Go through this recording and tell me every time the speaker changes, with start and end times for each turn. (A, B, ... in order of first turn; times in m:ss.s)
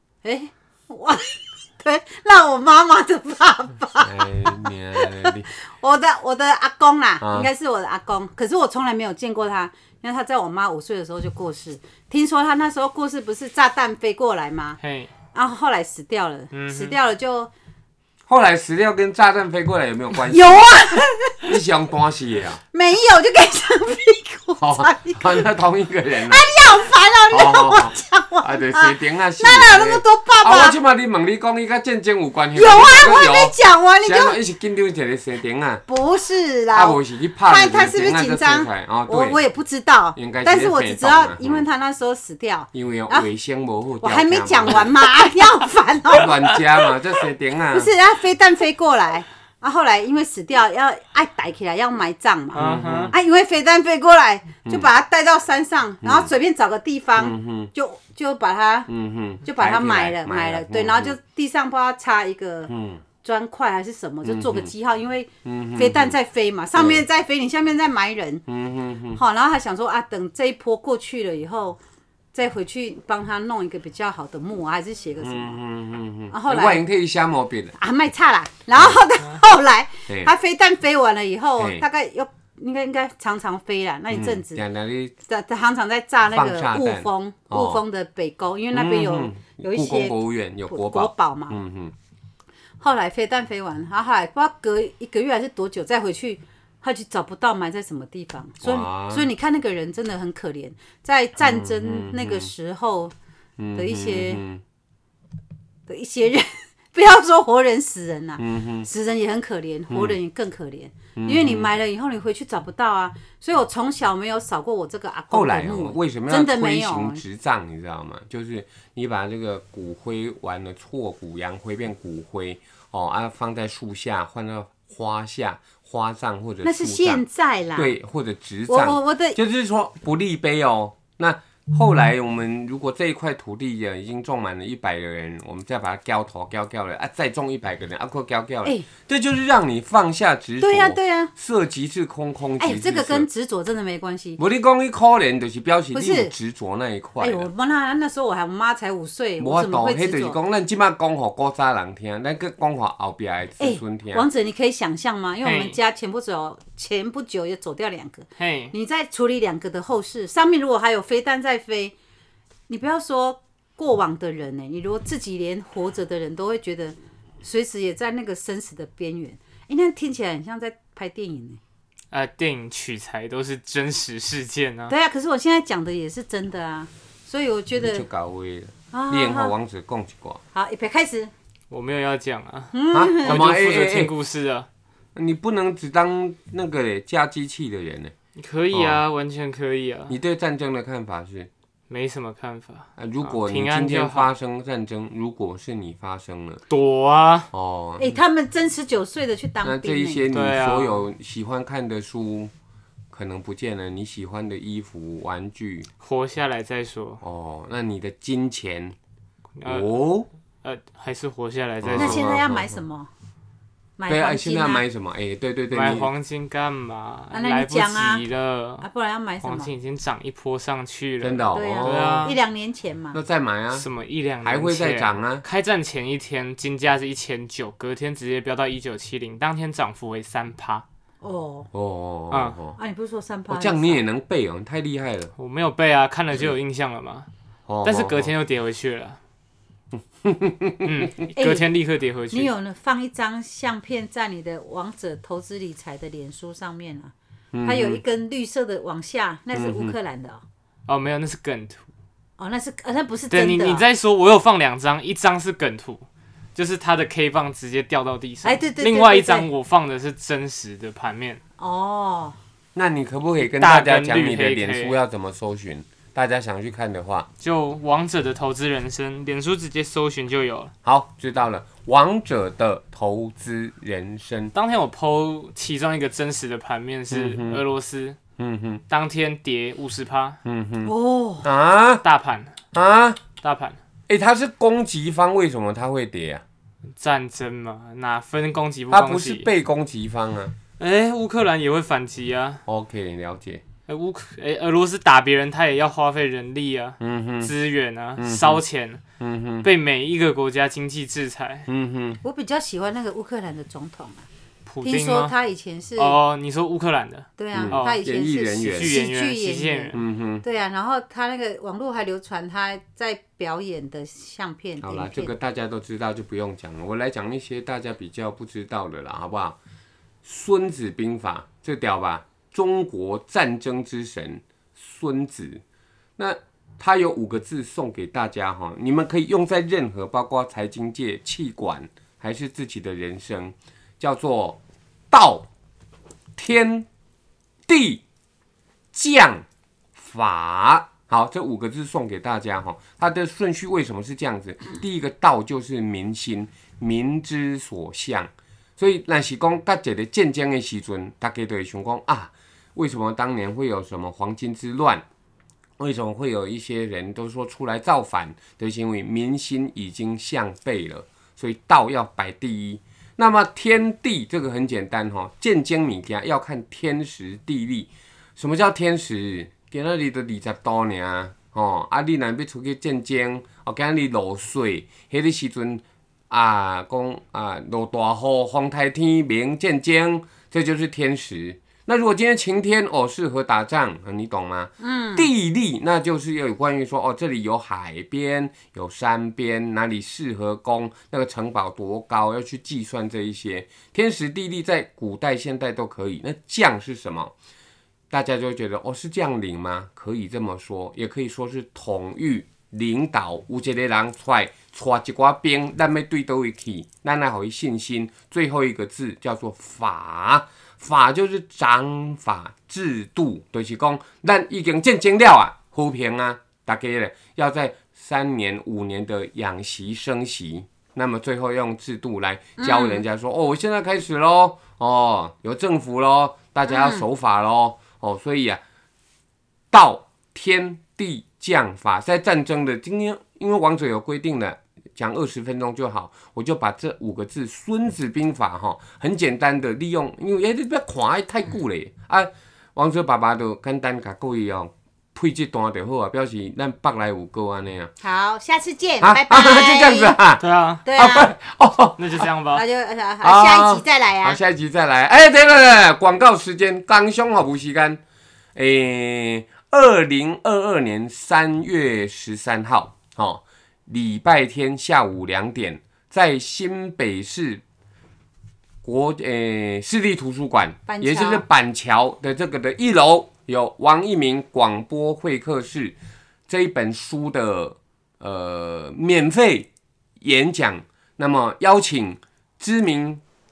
0:00.2-0:14.8 A
0:04.0-0:05.5 B
0:07.2-0:07.5 B
0:14.8-0:15.1 C
0:15.3-0:17.5 A
0:16.5-0:17.0 C
0:18.3-0:22.6 B
0:20.2-0:21.5 A
0:22.7-0:25.4 A
0:24.6-0:26.4 B
0:26.2-0:30.8 A
0:27.3-0:35.8 B
0:32.5-0:34.4 A
0:35.9-0:43.3 A
0:36.7-0:39.4 B
0:40.2-0:41.7 B
0:42.7-0:45.0 B
0:44.0-0:46.6 A
0:46.1-0:47.9 B
0:47.7-0:58.9 A
0:52.5-0:53.1 C
0:52.5-0:53.1 B
0:56.0-0:56.3 B
0:57.2-0:57.7 B
0:58.9-1:01.2 B
0:59.4-1:08.4 A
1:02.7-1:03.0 B
1:04.2-1:04.7 B
1:05.4-1:06.2 B
1:06.7-1:07.0 B
1:08.5-1:09.2 B
1:09.1-1:11.8 A
1:12.3-1:15.6 A
1:15.2-1:17.7 B
1:16.3-1:16.8 A
1:17.8-1:24.6 A
1:18.8-1:19.0 B
1:21.6-1:21.8 B
1:24.1-1:25.1 B
1:25.2-1:31.6 A
1:26.3-1:27.8 B
1:28.7-1:31.9 B
1:32.8-1:43.1 A
1:38.6-1:39.3 B
1:41.4-1:42.5 B
1:43.6-1:44.6 B
1:43.7-1:44.4 A
1:45.9-1:57.2 A
1:48.4-1:48.9 B
1:49.9-1:50.2 B
1:51.2-1:51.7 B
1:55.3-2:07.2 B
2:06.6-2:08.0 A
2:07.8-2:23.2 B
2:08.7-2:09.4 A
2:20.6-2:21.3 A
2:22.6-2:24.4 A
2:24.4-2:27.5 B
2:25.9-2:26.3 A
2:27.2-2:30.4 A
2:29.4-2:34.2 B
2:33.6-2:41.9 A
2:35.4-2:35.8 C
2:38.4-2:38.7 C
2:42.7-2:51.6 A
2:52.1-2:54.9 C
2:54.9-2:58.0 A
2:57.8-3:00.4 B
2:58.9-2:59.5 A
3:00.5-3:01.3 A
3:01.7-3:04.7 C
3:02.7-3:03.4 A
3:02.9-3:04.1 B
3:05.1-3:08.1 B
3:08.4-3:10.2 C
3:08.7-3:09.0 B
3:10.1-3:11.5 B
3:11.9-3:14.3 C
3:13.0-3:16.6 B
3:16.7-3:17.5 C
3:17.5-3:18.2 B
3:18.0-3:20.2 A
3:19.6-3:22.5 B
3:20.3-3:21.0 C
3:23.1-3:25.9 B
3:26.0-3:27.2 C
3:27.2-3:29.0 B
3:29.6-3:29.9 C
3:29.6-3:30.3 B
3:30.6-3:32.4 C
3:31.8-3:32.8 B
3:31.9-3:33.1 A
3:34.0-3:34.8 A
3:34.1-3:36.1 B
3:35.7-3:38.9 C
3:37.3-3:38.2 A
3:38.8-3:39.7 A
3:39.4-3:42.4 C
3:41.2-3:42.3 B
3:41.5-3:43.2 A
3:43.1-3:43.8 B
3:43.7-3:50.8 C
3:44.4-3:45.4 B
3:51.2-3:51.7 A
3:51.7-3:52.8 B
3:52.3-3:52.6 C
3:52.8-3:54.0 A
3:53.5-3:55.3 B
3:55.4-3:57.3 C
3:57.7-3:58.3 B
3:57.8-3:59.2 C
4:00.2-4:01.1 B
4:00.8-4:02.5 C
4:01.3-4:01.7 A
4:02.3-4:07.1 A
4:07.5-4:08.0 B
4:07.6-4:10.4 A
4:09.5-4:09.9 B
4:10.9-4:11.8 C
4:12.4-4:13.8 A
4:13.3-4:21.4 C
4:18.4-4:19.5 A
4:21.6-4:22.4 A
4:22.7-4:27.3 B
4:23.4-4:25.0 C
4:27.4-4:30.7 C
4:30.8-4:34.5 B
4:34.5-4:38.2 C
4:37.1-4:37.6 B
4:38.4-4:38.8 B
4:38.9-4:40.4 C
4:40.4-4:42.0 B
4:40.8-4:41.5 A
4:42.0-4:42.5 C
4:42.7-4:43.2 B
4:43.4-4:43.8 C
4:44.1-4:46.4 B
4:47.0-4:49.5 C
4:48.9-4:50.5 B
4:50.8-4:52.6 C
4:52.7-4:53.6 B
4:53.9-4:59.0 C
4:57.0-4:57.5 B
4:58.2-4:58.6 B
4:59.2-4:59.7 B
4:59.6-5:01.7 C
5:01.7-5:02.2 B
5:02.2-5:04.2 A
5:04.6-5:05.3 C
5:04.8-5:06.2 A
5:06.0-5:08.0 C
5:07.4-5:15.3 A
5:07.5-5:09.0 B
5:08.6-5:10.0 C
5:09.9-5:10.4 B
5:14.8-5:19.6 B
5:20.2-5:25.6 B
5:26.2-5:34.6 B
5:35.1-5:35.5 B
5:36.4-5:36.9 B
5:37.7-5:38.0 B
5:38.9-5:39.4 B
5:40.0-5:55.0 B
5:55.8-6:37.3 B
6:24.8-6:25.3 A
6:38.1-7:08.6 B
7:02.6-7:03.0 A
7:06.7-7:07.0 A
7:09.7-7:27.9 B
7:28.0-7:30.2 A
7:29.0-7:32.3 B
7:30.4-7:30.8 C
7:30.8-7:31.3 A
7:32.0-7:32.6 C
7:32.5-7:34.4 A
7:33.2-7:38.0 B
7:38.5-7:47.6 B
7:48.8-7:55.9 B
7:50.9-7:51.4 A
7:56.5-7:59.7 B
8:00.2-8:03.2 B